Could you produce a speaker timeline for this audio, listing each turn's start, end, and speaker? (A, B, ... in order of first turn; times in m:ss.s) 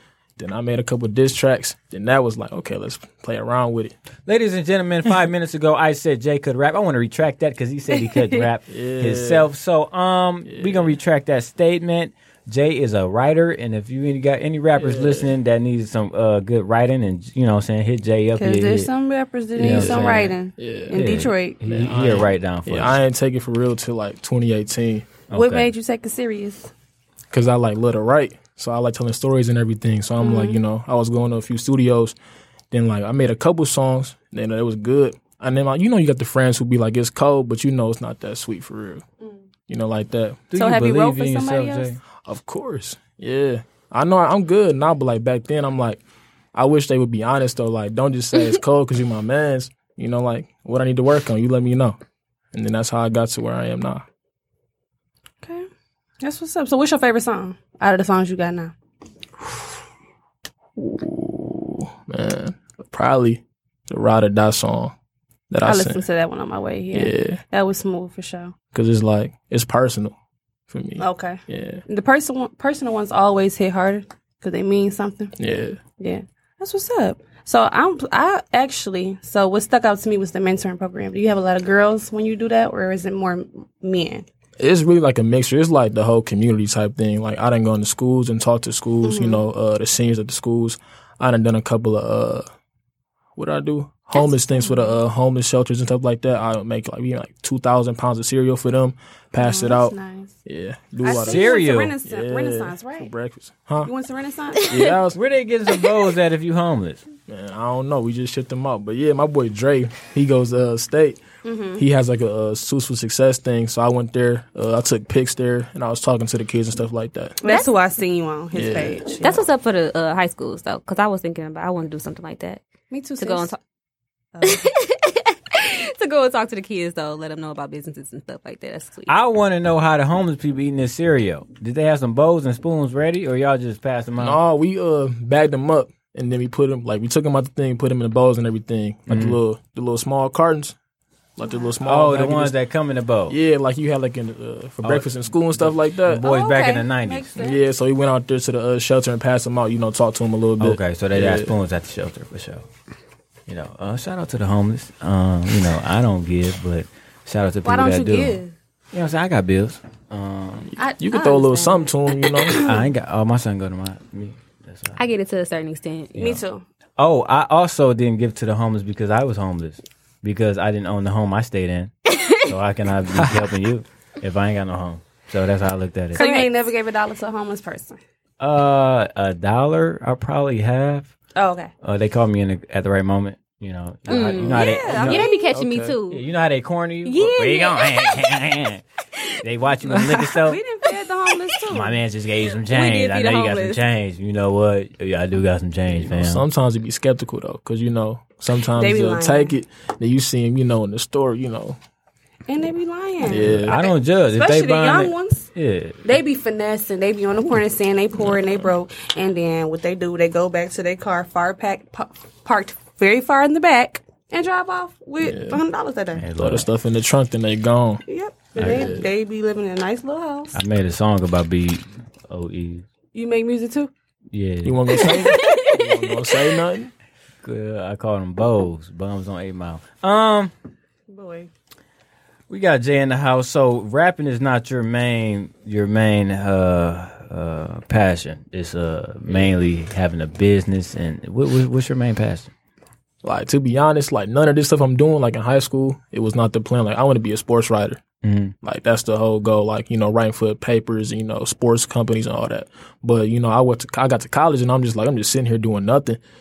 0:00.4-0:03.9 A
0:04.2-0:18.9 B
0:08.7-0:09.5 A
0:10.4-0:10.9 A
0:14.8-0:15.3 A
0:18.4-0:21.6 C
0:19.6-0:20.4 B
0:19.6-0:25.2 A
0:20.9-0:23.0 B
0:25.3-0:25.7 B
0:25.3-0:26.7 C
0:27.3-0:32.1 A
0:30.2-0:30.6 C
0:32.7-0:39.0 A
0:39.7-0:40.4 A
0:40.5-0:42.0 B
0:40.5-0:42.0 C
0:42.1-0:46.0 A
0:46.5-0:52.0 A
0:52.5-0:54.0 A
0:55.4-0:55.7 C
0:56.2-0:58.7 C
1:00.8-1:04.9 A
1:05.5-1:06.0 A
1:05.6-1:08.5 C
1:06.9-1:07.4 A
1:08.7-1:10.1 A
1:10.7-1:11.8 A
1:11.0-1:15.3 C
1:15.4-1:15.8 A
1:16.0-1:24.2 C
1:24.6-1:32.4 A
1:29.0-1:29.4 C
1:33.4-1:39.9 A
1:34.1-1:35.0 C
1:39.4-1:40.4 C
1:40.4-1:43.9 A
1:41.0-1:43.1 C
1:41.0-1:42.0 B
1:43.8-1:44.7 C
1:44.7-1:45.2 A
1:45.1-1:47.0 B
1:47.3-1:51.2 A
1:51.4-1:51.8 C
1:51.8-1:57.4 A
1:57.4-1:59.4 C
1:57.4-1:57.7 D
1:58.5-1:59.1 A
1:59.2-2:02.6 D
2:02.9-2:03.5 C
2:03.2-2:03.6 D
2:04.3-2:04.7 C
2:04.4-2:09.1 D
2:09.1-2:14.4 B
2:14.2-2:20.8 A
2:19.1-2:19.4 B
2:21.4-2:22.5 A
2:21.4-2:21.7 C
2:21.8-2:23.4 B
2:23.3-2:26.2 A
2:24.8-2:27.4 B
2:26.2-2:27.6 C
2:27.4-2:31.5 A
2:30.6-2:32.6 B
2:33.5-2:40.7 B
2:37.6-2:38.5 C
2:40.8-2:42.8 C
2:41.0-2:42.7 A
2:42.5-2:45.0 B
2:45.0-2:46.2 D
2:46.2-2:46.4 B
2:46.2-2:46.6 C
2:47.0-2:51.9 B
2:52.1-2:52.5 D
2:52.4-2:56.2 B
2:53.2-2:53.4 A
2:56.1-2:56.5 D
2:56.1-2:58.0 C
2:58.4-3:01.1 B
3:01.3-3:01.7 C
3:01.8-3:05.3 B
3:04.1-3:05.5 C
3:04.1-3:06.2 D
3:05.4-3:06.0 A
3:06.1-3:08.8 B
3:07.0-3:08.3 D
3:09.1-3:09.4 D
3:09.4-3:10.6 B
3:09.8-3:10.4 A
3:10.4-3:12.0 C
3:11.7-3:16.4 B
3:12.6-3:13.8 D
3:15.9-3:21.8 A
3:18.8-3:19.6 C
3:22.5-3:25.5 C
3:23.2-3:23.8 A
3:23.4-3:26.1 B
3:26.0-3:36.2 C
3:35.2-3:35.6 A
3:36.1-3:36.7 B
3:36.3-3:38.0 A
3:38.0-3:40.6 C
3:38.6-3:38.9 B
3:38.6-3:39.1 A
3:40.5-3:42.8 B
3:43.1-3:43.9 C
3:44.3-3:45.2 B
3:44.6-3:46.9 A
3:44.9-3:46.2 D
3:47.4-3:50.5 B
3:51.1-3:51.5 C
3:52.5-4:02.5 B
4:03.2-4:08.0 A
4:08.2-4:08.5 B
4:08.6-4:16.2 A